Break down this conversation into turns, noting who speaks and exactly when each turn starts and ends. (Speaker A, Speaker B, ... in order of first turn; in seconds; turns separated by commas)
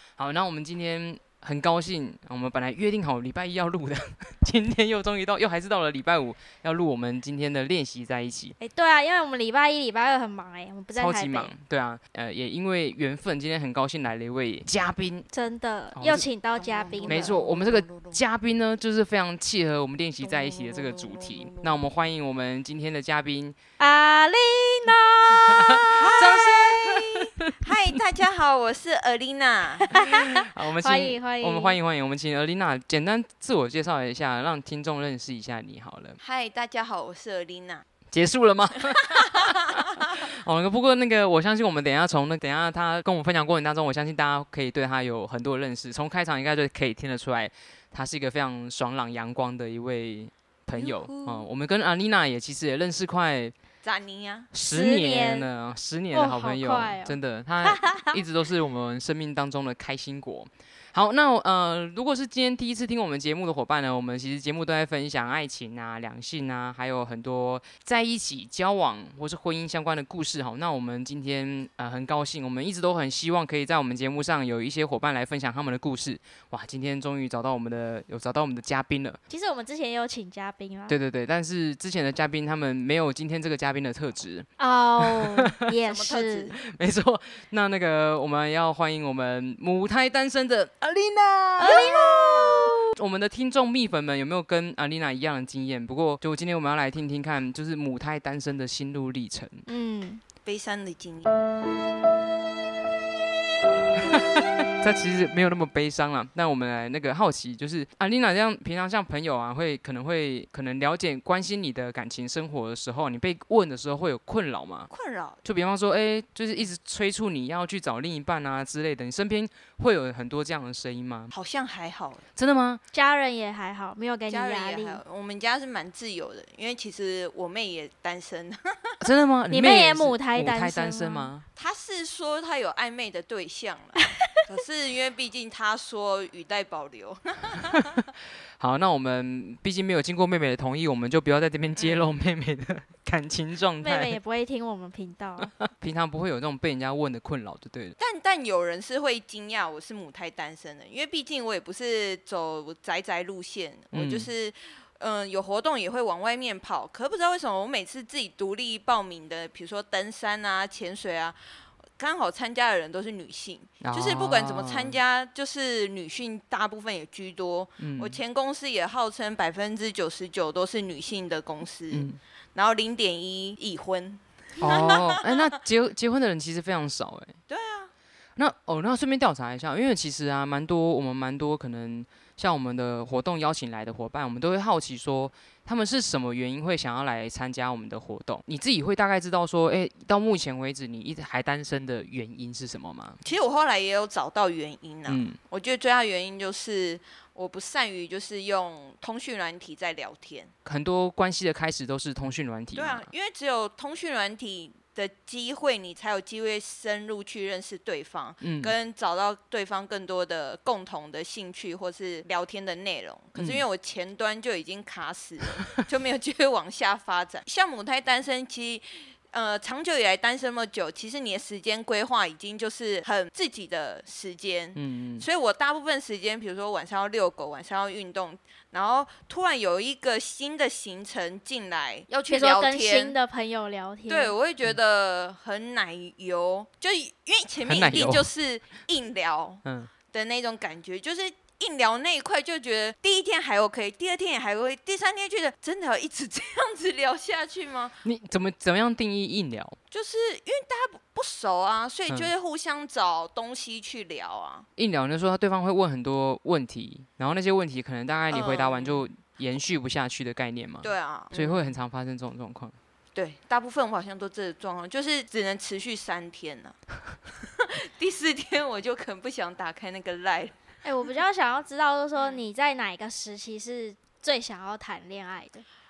Speaker A: 0.2-8.5, Speaker B: 8.6-11.5, Speaker A: 10.9-15.2, Speaker B: 15.3-17.4, Speaker A: 15.9-16.2, Speaker C: 16.6-18.2, Speaker A: 17.1-23.6, Speaker C: 20.2-21.8, Speaker B: 23.8-26.2, Speaker A: 25.3-27.5, Speaker C: 26.0-30.0, Speaker B: 29.9-31.8, Speaker A: 29.9-36.2, Speaker C: 36.2-37.8, Speaker A: 38.1-53.5, Speaker C: 39.1-40.2, Speaker C: 50.8-51.3, Speaker C: 53.8-54.5, Speaker A: 54.5-79.2, Speaker B: 54.7-55.5, Speaker B: 56.1-58.2, Speaker B: 79.3-81.0, Speaker A: 80.9-84.5, Speaker B: 84.6-86.5, Speaker A: 85.0-85.5, Speaker C: 85.8-86.6, Speaker A: 86.6-99.6, Speaker B: 91.6-92.3, Speaker C: 91.6-92.7, Speaker B: 99.7-100.2, Speaker C: 100.4-101.3, Speaker A: 104.0-114.9, Speaker C: 114.9-115.4, Speaker A: 115.4-121.3, Speaker C: 121.3-122.2, Speaker A: 122.3-122.8, Speaker B: 122.9-125.0, Speaker C: 124.3-129.0, Speaker A: 129.0-131.4, Speaker B: 129.5-131.3, Speaker C: 131.6-138.0, Speaker A: 138.6-144.2, Speaker C: 141.8-142.0, Speaker B: 143.8-145.5, Speaker A: 145.7-148.0, Speaker C: 148.0-161.3, Speaker A: 153.9-154.3, Speaker C: 162.0-175.5, Speaker A: 163.8-165.0, Speaker A: 167.8-168.2, Speaker A: 171.9-172.2, Speaker B: 174.6-174.9, Speaker A: 174.6-177.4, Speaker C: 177.5-177.9, Speaker A: 178.4-193.2, Speaker C: 193.2-200.5, Speaker A: 195.1-195.4, Speaker A: 200.6-203.1, Speaker C: 202.7-233.1, Speaker A: 208.4-208.7, Speaker A: 213.3-213.6, Speaker A: 224.8-225.2, Speaker B: 232.2-234.3, Speaker C: 234.1-248.0, Speaker A: 237.6-238.3, Speaker A: 239.6-239.9, Speaker A: 248.0-249.8, Speaker C: 249.9-254.7, Speaker A: 254.8-262.8, Speaker C: 258.3-259.1, Speaker C: 260.8-261.7, Speaker C: 263.1-266.8, Speaker C: 267.4-270.5, Speaker B: 270.8-275.6, Speaker C: 272.1-272.4